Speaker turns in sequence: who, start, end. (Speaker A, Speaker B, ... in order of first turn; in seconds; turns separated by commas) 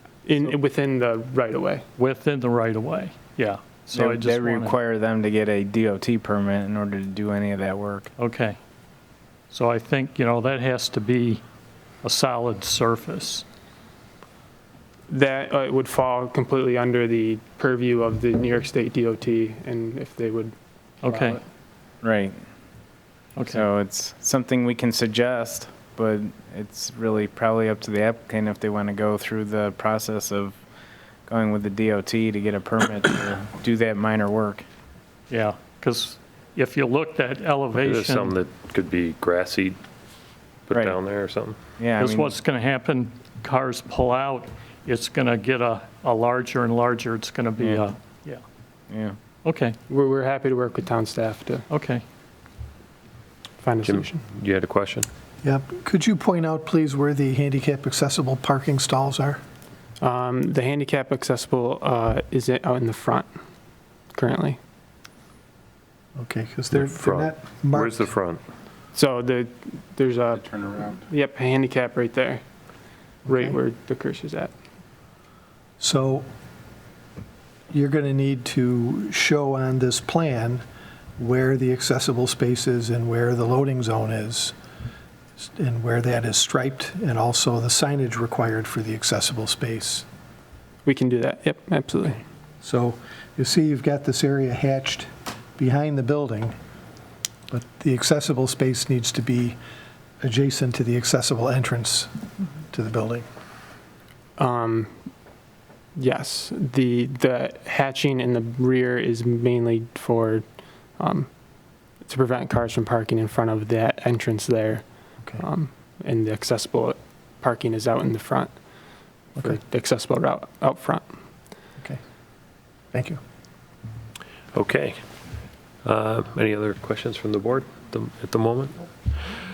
Speaker A: 0.2-1.9, Speaker B: 2.0-4.8, Speaker C: 3.9-8.1, Speaker B: 8.2-8.6, Speaker B: 9.5-11.4, Speaker B: 12.0-13.4, Speaker A: 15.1-21.4, Speaker B: 21.0-21.4, Speaker C: 22.0-22.4, Speaker B: 23.4-23.6, Speaker C: 23.4-30.6, Speaker C: 31.3-34.6, Speaker B: 35.3-38.3, Speaker D: 37.8-39.8, Speaker D: 40.7-41.6, Speaker C: 41.8-42.3, Speaker B: 42.0-48.4, Speaker C: 48.9-49.2, Speaker B: 49.4-49.8, Speaker A: 49.9-51.6, Speaker B: 51.7-52.0, Speaker A: 53.6-54.2, Speaker D: 53.8-55.1, Speaker E: 55.4-59.4, Speaker A: 60.0-63.3, Speaker A: 64.1-64.6, Speaker E: 66.2-68.0, Speaker D: 66.7-68.4, Speaker A: 68.9-72.4, Speaker A: 73.2-74.5, Speaker E: 73.3-73.5, Speaker E: 75.8-76.2, Speaker E: 77.7-80.6, Speaker E: 81.2-84.5, Speaker E: 85.4-90.0, Speaker A: 90.8-92.2, Speaker E: 92.6-96.5, Speaker E: 97.5-99.6, Speaker E: 100.2-102.1, Speaker E: 102.7-103.2, Speaker A: 104.4-104.9, Speaker A: 106.0-110.4, Speaker A: 111.0-111.3, Speaker A: 112.0-114.8, Speaker A: 115.4-118.5, Speaker A: 119.4-121.0, Speaker E: 122.9-123.2, Speaker D: 124.5-125.0, Speaker D: 125.8-128.7